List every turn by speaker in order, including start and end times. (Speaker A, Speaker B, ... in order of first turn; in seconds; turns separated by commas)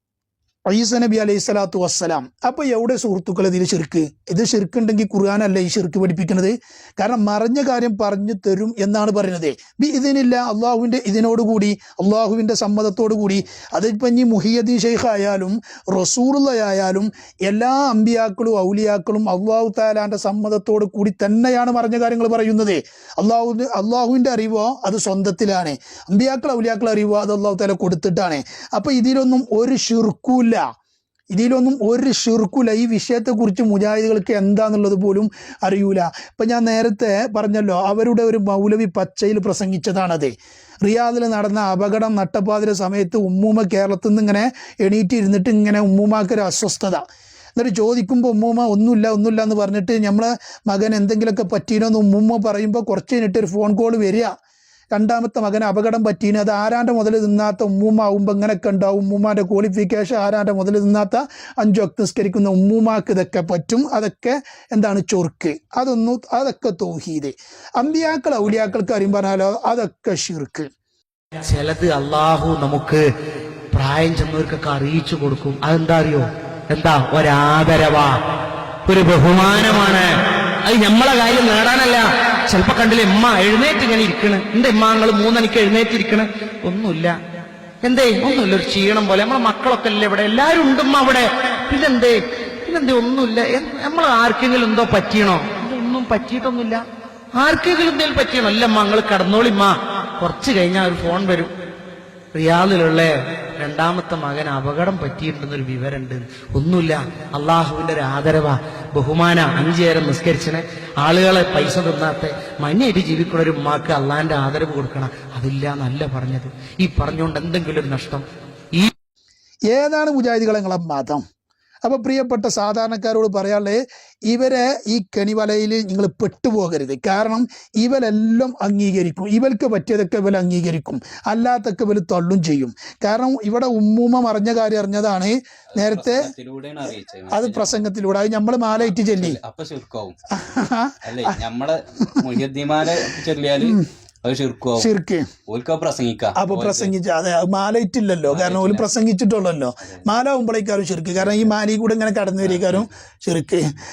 Speaker A: 0.7-30.6, Speaker A: 31.3-40.3, Speaker A: 40.8-47.0, Speaker A: 47.6-54.3, Speaker A: 54.9-70.7, Speaker B: 71.5-73.0, Speaker B: 73.7-78.2, Speaker B: 78.9-80.1, Speaker B: 80.7-87.2, Speaker B: 87.8-96.8, Speaker B: 97.4-101.5, Speaker B: 102.3-118.9, Speaker A: 119.7-121.2, Speaker A: 121.8-136.3, Speaker C: 135.8-137.9, Speaker A: 137.3-139.4, Speaker C: 138.8-140.2, Speaker A: 140.3-141.0, Speaker C: 141.0-144.9, Speaker A: 144.8-145.3, Speaker C: 145.5-146.9, Speaker A: 146.4-153.6, Speaker C: 148.3-148.8, Speaker C: 151.2-151.5, Speaker C: 152.4-152.9